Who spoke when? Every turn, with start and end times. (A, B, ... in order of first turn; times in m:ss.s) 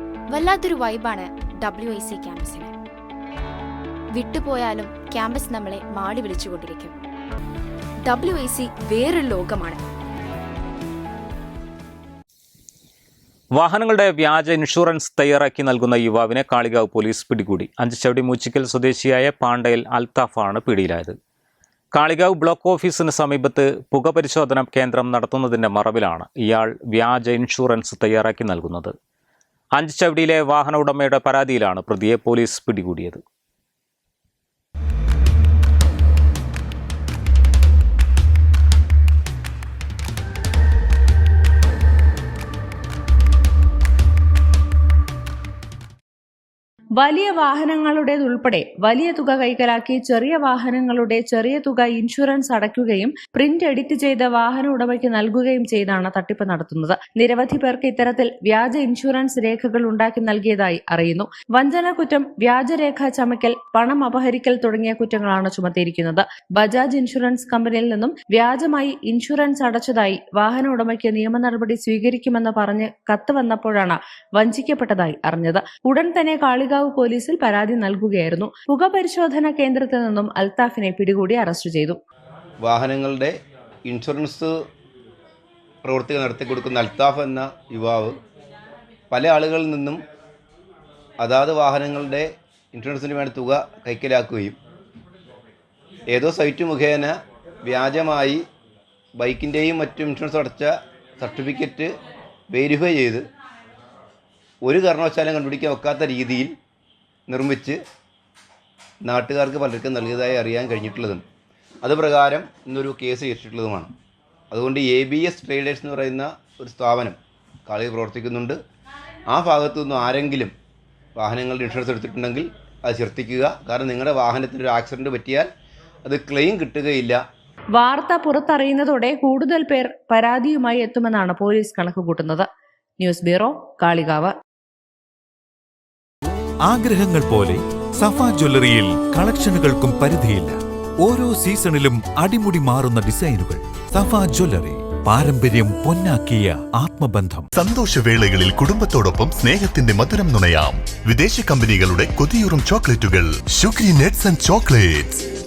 0:00.3-0:02.7 A
0:04.1-0:06.9 A
0:08.0-0:09.8 A
0:13.5-0:21.2 B
0:21.9-0:28.9 B
0:29.7-0:33.2 B
0:47.0-1:22.0 C
1:22.6-1:24.5 D
1:25.8-1:28.2 D
1:29.1-1:30.0 D
1:31.2-1:34.6 D
1:36.1-1:38.4 D
1:39.2-1:42.0 D
1:42.5-1:43.3 D
1:44.6-1:46.5 D
1:47.3-1:47.8 D
1:49.0-1:51.2 D
1:51.8-1:53.9 D
1:54.5-1:58.6 D
1:59.3-2:00.5 D
2:01.2-2:05.5 D
2:06.0-2:07.2 D
2:07.7-2:12.4 C
2:13.0-2:14.3 C
2:16.6-2:27.5 E
2:27.5-2:35.2 F